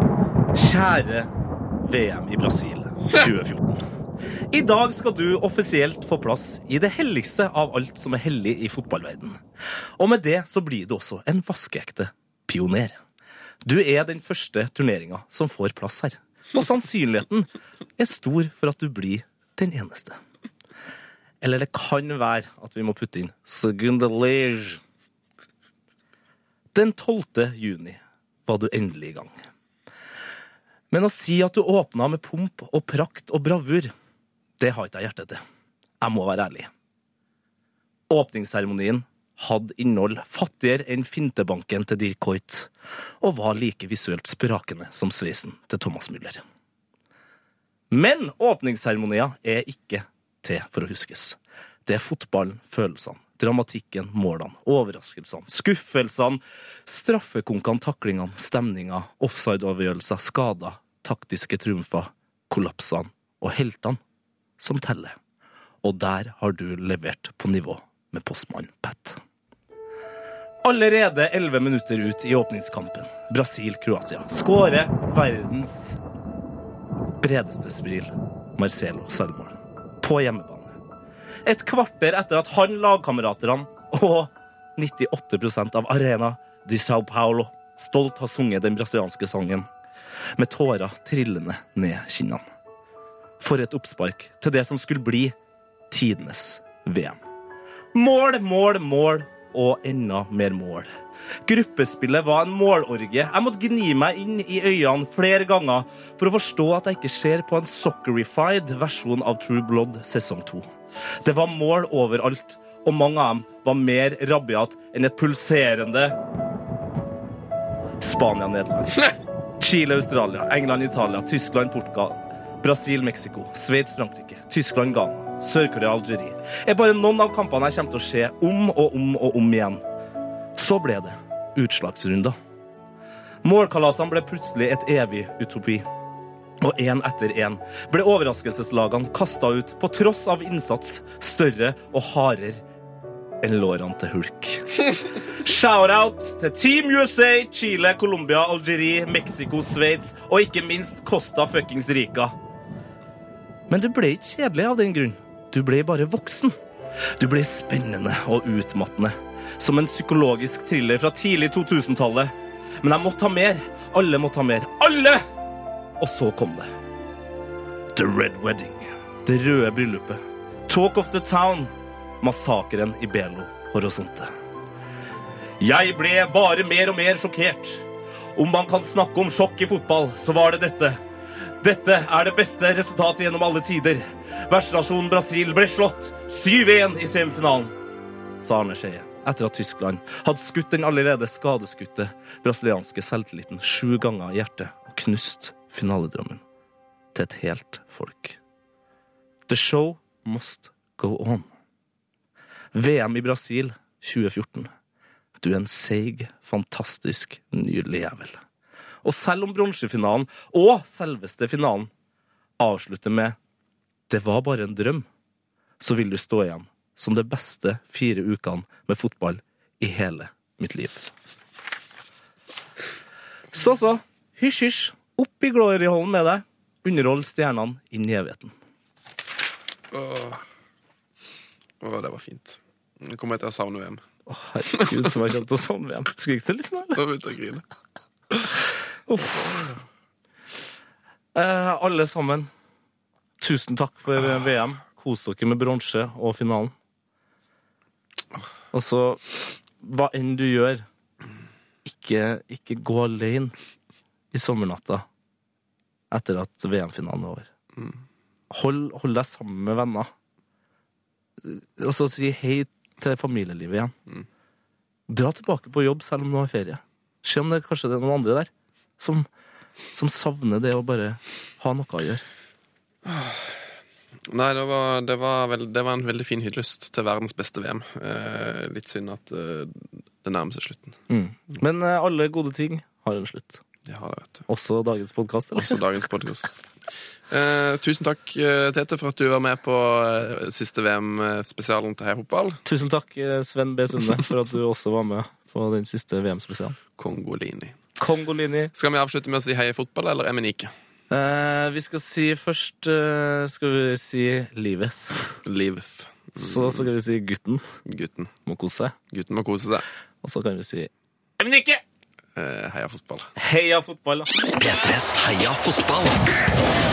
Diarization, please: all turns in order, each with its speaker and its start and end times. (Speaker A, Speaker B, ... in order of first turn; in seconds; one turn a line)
Speaker A: 0.5-1.3
Speaker A: 1.8-3.8
Speaker A: 4.5-9.4
Speaker A: 10.0-13.0
Speaker A: 13.6-20.2
Speaker A: 21.4-24.8
Speaker A: 26.7-29.3
Speaker A: 30.9-33.9
Speaker A: 34.6-35.4
Speaker A: 36.0-36.7
Speaker A: 38.1-42.7
Speaker A: 43.2-46.4
Speaker A: 47.9-64.0
Speaker A: 64.6-65.1
Speaker A: 65.8-69.2
Speaker A: 70.6-76.0
Speaker A: 77.2-80.7
Speaker A: 81.4-89.7
Speaker A: 90.3-92.4
Speaker A: 93.4-95.3
Speaker A: 95.9-97.2
Speaker A: 97.9-100.9
Speaker A: 101.5-110.7
Speaker A: 111.2-116.2
Speaker A: 118.0-119.0
Speaker A: 119.6-129.8
Speaker A: 130.6-132.3
Speaker A: 133.4-135.8
Speaker A: 136.6-142.6
Speaker A: 143.4-152.3
Speaker A: 153.7-156.6
Speaker A: 157.2-165.2
Speaker A: 166.0-166.7
Speaker A: 167.9-174.3
Speaker A: 175.6-177.8
Speaker A: 178.3-181.0
Speaker A: 181.6-187.7
Speaker A: 188.4-196.4
Speaker A: 197.1-198.4
Speaker A: 199.5-201.5
Speaker A: 202.7-204.7
Speaker A: 205.4-208.4
Speaker A: 209.0-211.9
Speaker A: 212.6-213.3
Speaker A: 214.1-215.1
Speaker A: 215.8-221.0
Speaker A: 223.5-228.5
Speaker B: 229.9-230.4
Speaker B: 231.8-234.0
Speaker A: 234.3-237.0
Speaker B: 234.7-235.1
Speaker B: 236.9-237.6
Speaker A: 239.1-239.7
Speaker A: 241.3-242.5
Speaker A: 243.4-246.7
Speaker A: 248.7-249.2
Speaker A: 249.8-250.8
Speaker A: 251.8-253.5
Speaker A: 254.3-255.1
Speaker A: 256.1-257.5
Speaker A: 258.5-260.1
Speaker A: 261.4-263.9
Speaker A: 265.1-269.3
Speaker A: 269.9-272.2
Speaker B: 273.0-273.5
Speaker B: 274.3-281.0
Speaker A: 281.1-283.6
Speaker B: 283.9-284.5
Speaker A: 284.5-285.8
Speaker B: 285.6-286.7
Speaker B: 287.3-292.6
Speaker A: 292.6-296.8
Speaker B: 297.0-297.8
Speaker A: 298.0-298.7
Speaker B: 298.7-300.7
Speaker A: 301.1-305.4
Speaker B: 305.4-306.9
Speaker A: 306.4-307.6
Speaker B: 307.9-308.3
Speaker A: 308.4-308.9
Speaker B: 309.1-309.8
Speaker A: 310.2-311.8
Speaker B: 312.4-313.3
Speaker A: 313.4-314.3
Speaker C: 314.5-316.4